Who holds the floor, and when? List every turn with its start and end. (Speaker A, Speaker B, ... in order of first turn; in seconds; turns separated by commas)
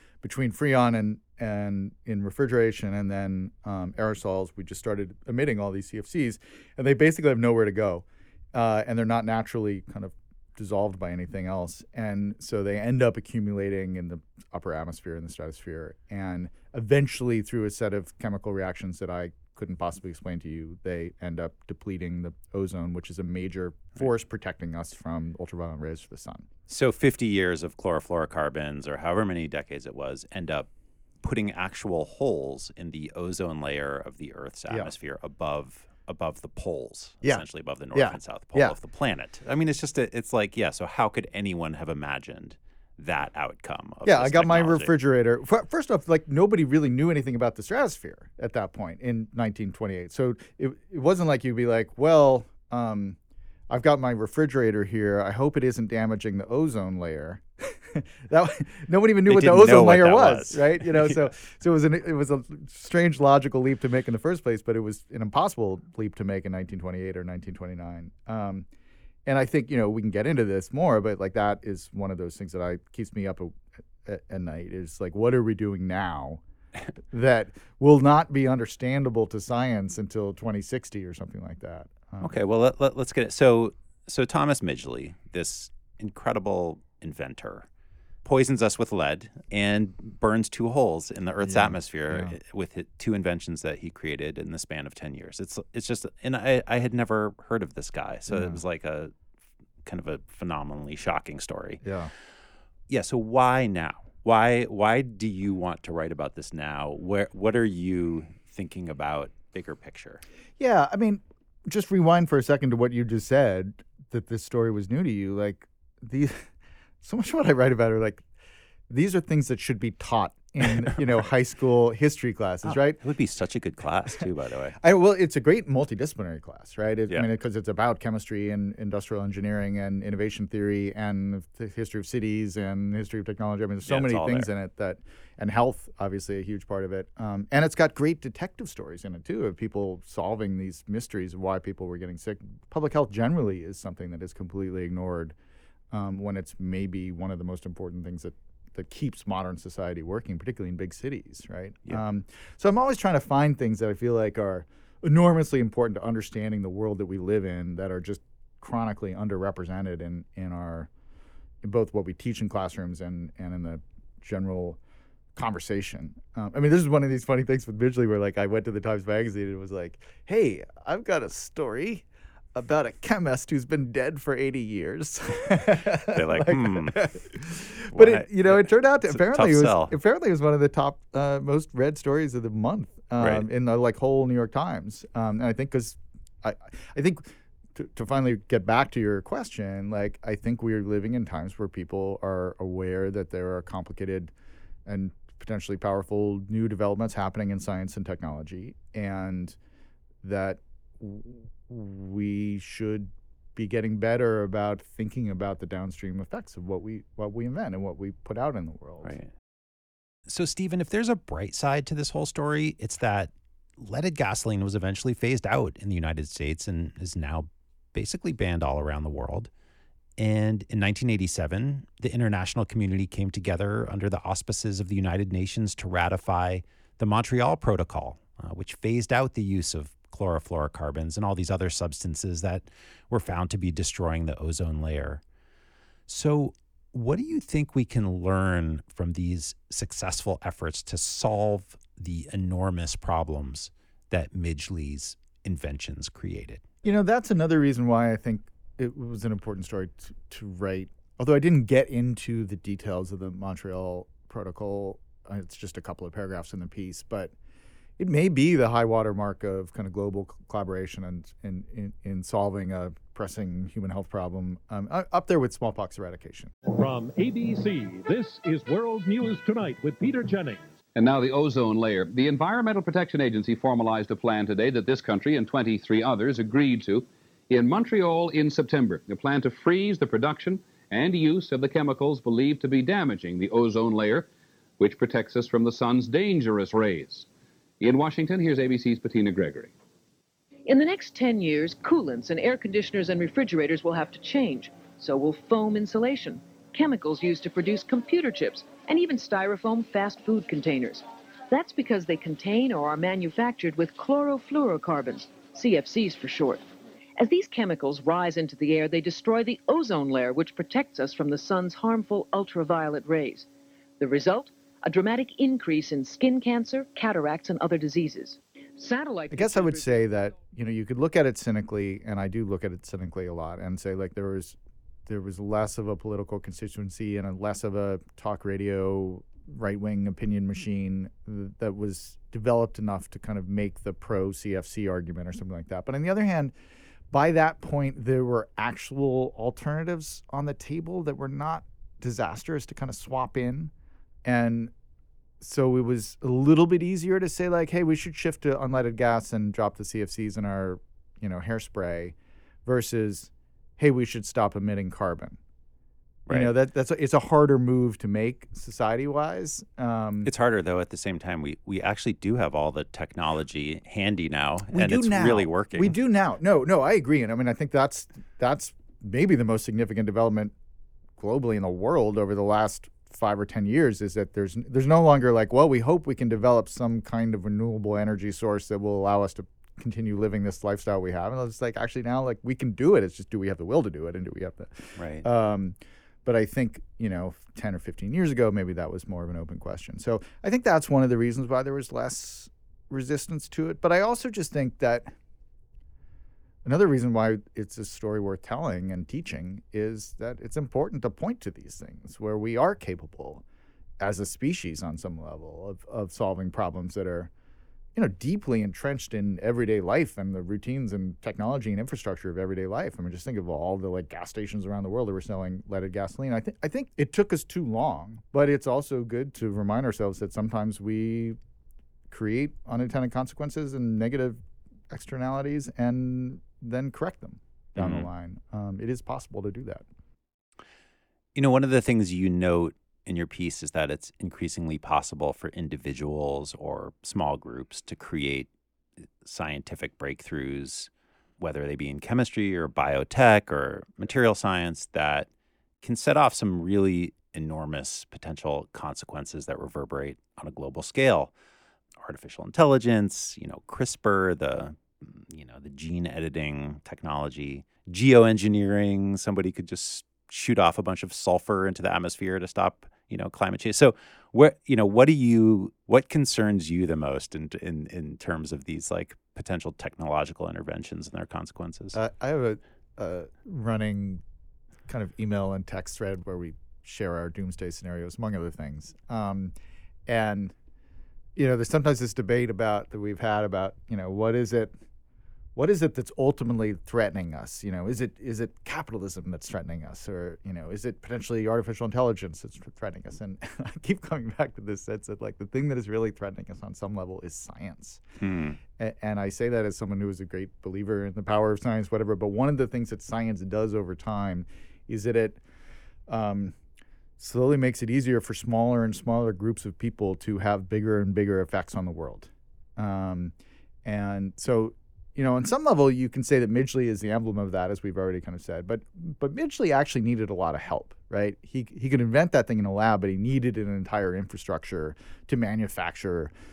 Speaker A: 0.2-26.4, Speaker B: 26.7-30.7, Speaker B: 31.2-44.9, Speaker A: 37.2-38.8, Speaker A: 44.0-53.2, Speaker A: 53.7-68.7, Speaker B: 59.3-61.3, Speaker A: 69.2-76.4, Speaker A: 77.1-82.3, Speaker B: 82.2-87.7, Speaker B: 88.2-99.1, Speaker A: 91.4-92.3, Speaker A: 98.3-98.6, Speaker B: 99.8-101.8, Speaker A: 101.8-102.1, Speaker B: 102.9-110.2, Speaker A: 110.6-116.5, Speaker A: 117.0-118.2, Speaker A: 118.9-123.0, Speaker B: 122.6-124.8, Speaker A: 124.8-145.3, Speaker B: 133.8-134.5, Speaker A: 145.9-160.9, Speaker A: 161.6-164.8, Speaker A: 165.3-194.3, Speaker B: 176.1-177.3, Speaker B: 177.9-179.9, Speaker B: 183.2-183.5, Speaker A: 194.8-199.6, Speaker A: 200.2-209.1, Speaker B: 209.0-209.3, Speaker B: 210.3-219.5, Speaker B: 220.2-235.2, Speaker B: 236.1-246.6, Speaker A: 246.8-257.3, Speaker A: 258.0-266.5, Speaker C: 266.7-270.6, Speaker D: 270.9-287.3, Speaker D: 287.8-289.7, Speaker E: 290.7-306.6, Speaker E: 307.2-313.5, Speaker E: 314.0-320.2, Speaker A: 319.3-336.5, Speaker A: 337.1-343.7, Speaker A: 344.2-344.7, Speaker A: 345.4-352.1, Speaker A: 352.6-355.4, Speaker A: 356.3-360.3, Speaker B: 360.2-366.0, Speaker A: 364.7-370.5, Speaker A: 371.2-395.1, Speaker B: 385.0-385.2, Speaker A: 396.6-403.4, Speaker A: 404.0-407.3, Speaker A: 407.9-421.4, Speaker A: 422.1-429.8, Speaker B: 427.8-428.1, Speaker B: 431.3-438.5, Speaker B: 439.2-445.3, Speaker B: 445.8-451.3, Speaker B: 452.0-471.9, Speaker A: 471.9-474.2, Speaker A: 474.9-479.5, Speaker A: 480.1-480.5, Speaker A: 481.4-484.7, Speaker A: 485.6-498.0, Speaker B: 498.2-498.6, Speaker A: 498.8-505.4, Speaker A: 506.1-506.5, Speaker A: 507.2-513.3, Speaker A: 513.8-526.3